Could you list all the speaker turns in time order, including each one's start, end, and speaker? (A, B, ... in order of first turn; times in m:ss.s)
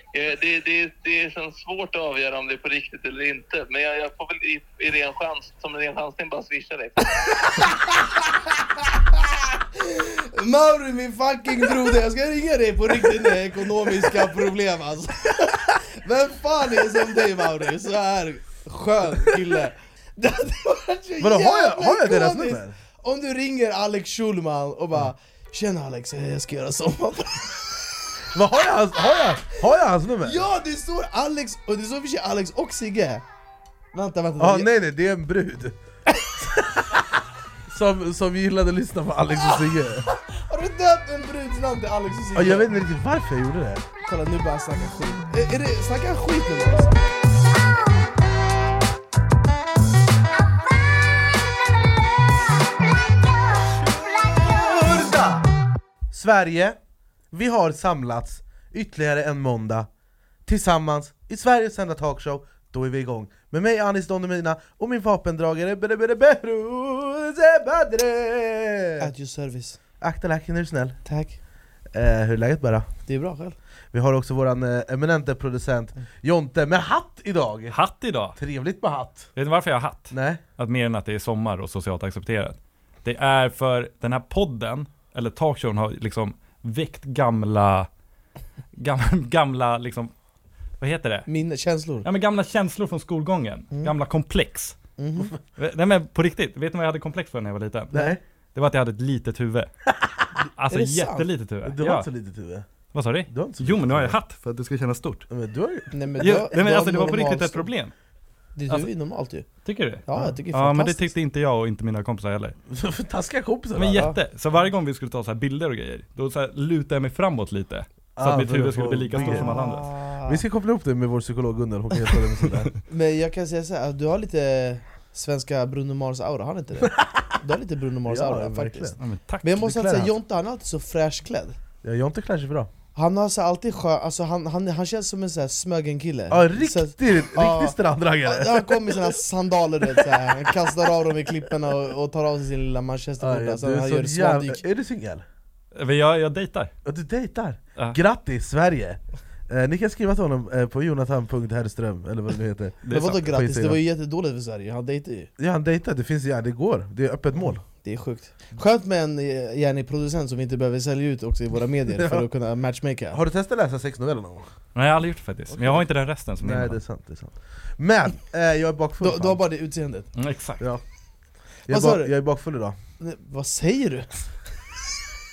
0:00.1-0:07.3 A
0:07.6-0:08.0 B
0:09.4-0:27.8 B
0:21.2-0:22.8 C
0:28.3-0:30.4 C
0:30.2-0:33.2 B
0:33.9-0:34.7 B
0:34.4-0:35.8 C
0:36.4-0:37.0 C
0:37.7-0:40.1 C
0:39.5-0:42.7 B
0:42.3-0:43.8 C
0:44.0-0:47.0 B
0:54.4-0:55.4 C
0:56.1-0:56.8 C
0:57.3-0:59.9 C
1:00.4-1:09.1 C
1:09.0-1:09.8 B
1:10.0-1:11.0 C
1:11.0-1:11.4 B
1:11.9-1:12.9 C
1:13.1-1:13.6 B
1:13.9-1:17.7 C
1:17.7-1:18.4 D
1:18.4-1:19.3 C
1:19.4-1:27.9 D
1:20.1-1:20.4 C
1:28.8-1:30.1 D
1:30.8-1:31.3 D
1:31.3-1:32.0 B
1:32.0-1:34.8 D
1:35.0-1:35.3 B
1:35.6-1:39.7 D
1:37.9-1:38.2 C
1:39.9-1:40.2 C
1:40.6-1:42.1 D
1:40.7-1:41.2 B
1:41.6-1:42.6 C
1:42.9-1:45.3 D
1:43.3-1:44.2 C
1:45.3-1:46.5 C
1:45.9-1:47.7 B
1:46.2-1:47.9 D
1:48.6-1:49.5 B
1:49.6-1:52.6 D
1:50.1-1:51.1 B
1:52.7-1:54.1 C
1:53.8-1:59.8 D
1:58.2-1:59.6 C
1:59.1-2:00.4 B
2:00.2-2:02.7 C
2:02.9-2:11.6 B
2:07.0-2:07.3 C
2:08.1-2:09.0 C
2:09.0-2:09.6 D
2:09.6-2:10.1 C
2:11.8-2:12.7 C
2:12.9-2:24.6 B
2:16.3-2:19.1 C
2:23.2-2:25.2 C
2:25.7-2:26.7 D
2:26.8-2:33.8 C
2:32.8-2:33.2 D
2:32.9-2:35.3 B
2:35.4-2:37.6 C
2:37.3-2:43.2 B
2:42.0-2:42.2 C
2:43.1-2:44.5 C
2:44.7-2:46.8 D
2:45.5-2:45.8 C
2:46.4-2:49.4 C
2:49.0-2:50.1 B
2:50.2-2:50.6 D
2:51.7-2:52.1 B
2:51.7-2:52.8 C
2:53.0-2:54.1 B